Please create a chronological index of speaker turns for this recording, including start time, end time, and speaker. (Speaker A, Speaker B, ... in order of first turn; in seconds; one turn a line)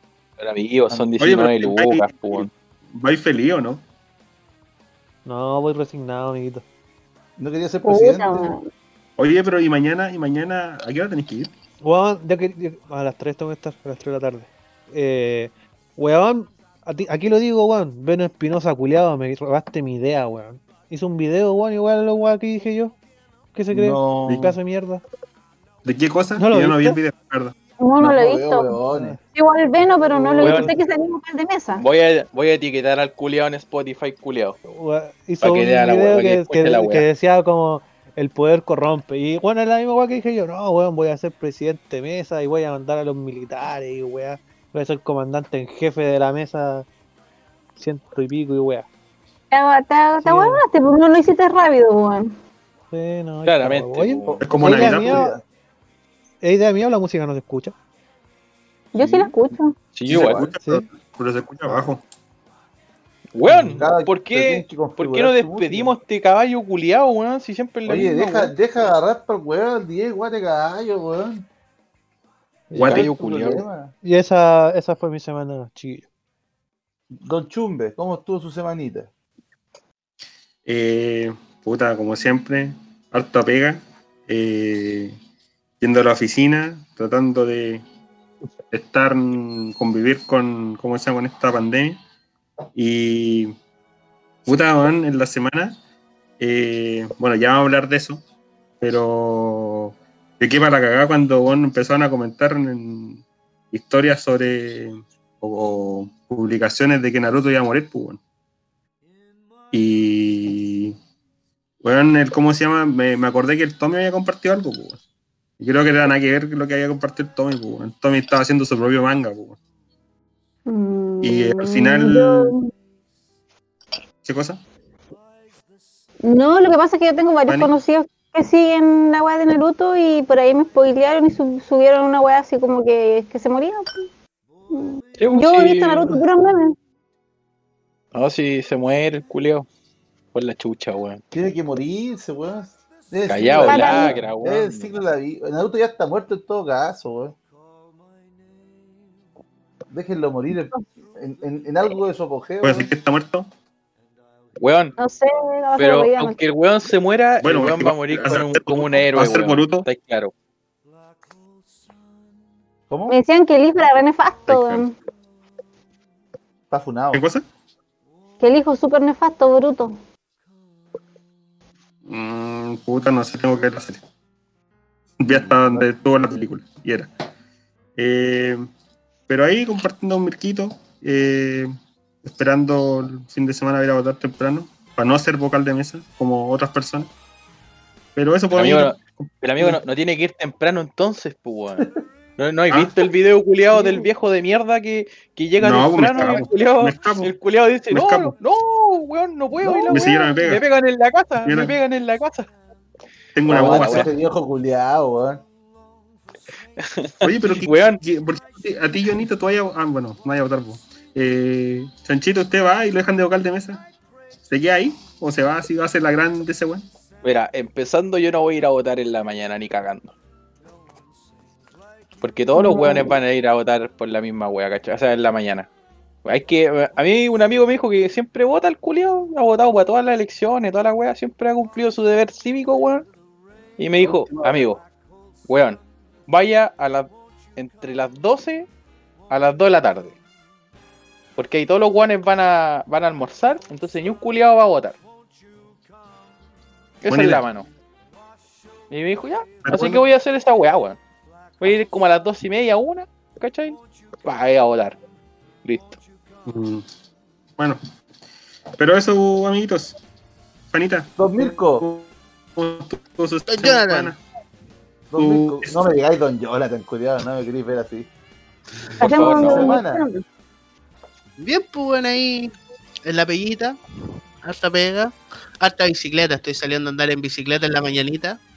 Speaker A: 0.4-2.5
Speaker B: 1.2-3.8
Speaker C: 5.2-6.6
Speaker D: 7.4-8.5
Speaker E: 7.8-8.6
Speaker B: 9.2-11.5
Speaker C: 11.8-22.9
Speaker C: 23.5-25.0
Speaker D: 23.7-24.5
Speaker B: 24.3-24.5
Speaker B: 25.8-27.5
Speaker C: 26.4-27.0
Speaker E: 27.8-28.8
Speaker D: 28.0-29.2
Speaker C: 28.9-29.2
Speaker E: 29.3-31.8
Speaker C: 30.1-30.8
Speaker A: 30.4-30.7
Speaker A: 31.8-34.6
Speaker C: 34.7-46.9
Speaker A: 35.4-37.0
Speaker C: 47.8-48.9
Speaker E: 49.5-52.4
Speaker C: 50.2-50.6
Speaker C: 52.9-55.3
Speaker A: 53.4-54.4
Speaker D: 54.3-55.4
Speaker B: 54.4-55.3
Speaker C: 56.4-57.7
Speaker E: 58.9-59.7
Speaker B: 59.0-59.3
Speaker A: 59.9-60.5
Speaker B: 60.1-62.0
Speaker A: 63.3-68.5
Speaker C: 63.5-63.9
Speaker D: 63.7-65.9
Speaker D: 67.8-71.4
Speaker C: 72.7-73.0
Speaker B: 72.8-73.1
Speaker A: 72.8-73.6
Speaker D: 72.9-73.9
Speaker C: 74.0-76.0
Speaker D: 77.1-79.1
Speaker B: 80.6-85.2
Speaker B: 85.8-87.8
Speaker B: 88.7-92.0
Speaker B: 92.7-93.5
Speaker B: 94.5-95.8
Speaker B: 96.4-98.2
Speaker B: 98.8-103.2
Speaker B: 103.7-108.2
Speaker B: 109.7-111.0
Speaker B: 111.8-115.0
Speaker B: 115.6-119.6
Speaker E: 120.7-122.7
Speaker B: 121.2-122.5
Speaker B: 124.2-124.6
Speaker E: 126.2-133.9
Speaker B: 127.5-127.7
Speaker E: 134.7-136.7
Speaker A: 135.2-136.2
Speaker A: 138.1-139.7
Speaker A: 140.3-141.2
Speaker D: 141.3-147.3
Speaker A: 143.3-144.9
Speaker E: 143.6-144.1
Speaker D: 149.9-152.9
Speaker B: 152.6-153.5
Speaker A: 154.6-154.9
Speaker E: 155.0-156.4
Speaker A: 155.8-160.3
Speaker B: 157.4-159.8
Speaker D: 162.9-163.2
Speaker E: 163.1-164.9
Speaker B: 164.5-164.9
Speaker D: 166.7-167.2
Speaker B: 167.1-167.4
Speaker E: 168.4-169.9
Speaker B: 172.1-174.0
Speaker B: 175.2-177.1
Speaker D: 175.3-175.9
Speaker B: 177.9-178.7
Speaker B: 179.3-187.1
Speaker B: 188.2-189.8
Speaker A: 188.5-191.8
Speaker A: 192.4-202.5
Speaker E: 193.7-194.1
Speaker B: 195.6-197.3
Speaker B: 197.9-198.3
Speaker D: 199.6-199.9
Speaker E: 199.8-200.2
Speaker B: 199.9-200.6
Speaker B: 201.4-201.8
Speaker B: 203.3-204.1
Speaker A: 203.5-204.1
Speaker D: 203.5-205.4
Speaker A: 206.8-208.0
Speaker B: 207.2-213.8
Speaker B: 214.5-216.8
Speaker A: 217.2-220.1
Speaker A: 222.2-225.7
Speaker E: 222.6-223.2
Speaker A: 226.2-233.1
Speaker A: 233.8-234.8
Speaker D: 234.0-234.6
Speaker A: 235.5-238.7
Speaker A: 239.3-240.2
Speaker A: 241.4-245.0
Speaker A: 247.0-247.7
Speaker B: 247.1-247.4
Speaker A: 248.9-251.0
Speaker B: 249.6-250.0
Speaker A: 251.6-255.0
Speaker A: 255.6-256.0
Speaker B: 256.5-256.8
Speaker B: 258.8-260.0
Speaker B: 260.7-264.2
Speaker D: 261.2-261.8
Speaker F: 263.5-264.1
Speaker D: 265.1-268.1
Speaker B: 265.2-265.7
Speaker A: 269.0-269.8
Speaker E: 269.0-270.2
Speaker D: 269.1-270.0
Speaker F: 271.4-272.5
Speaker F: 273.0-273.8
Speaker F: 274.4-278.4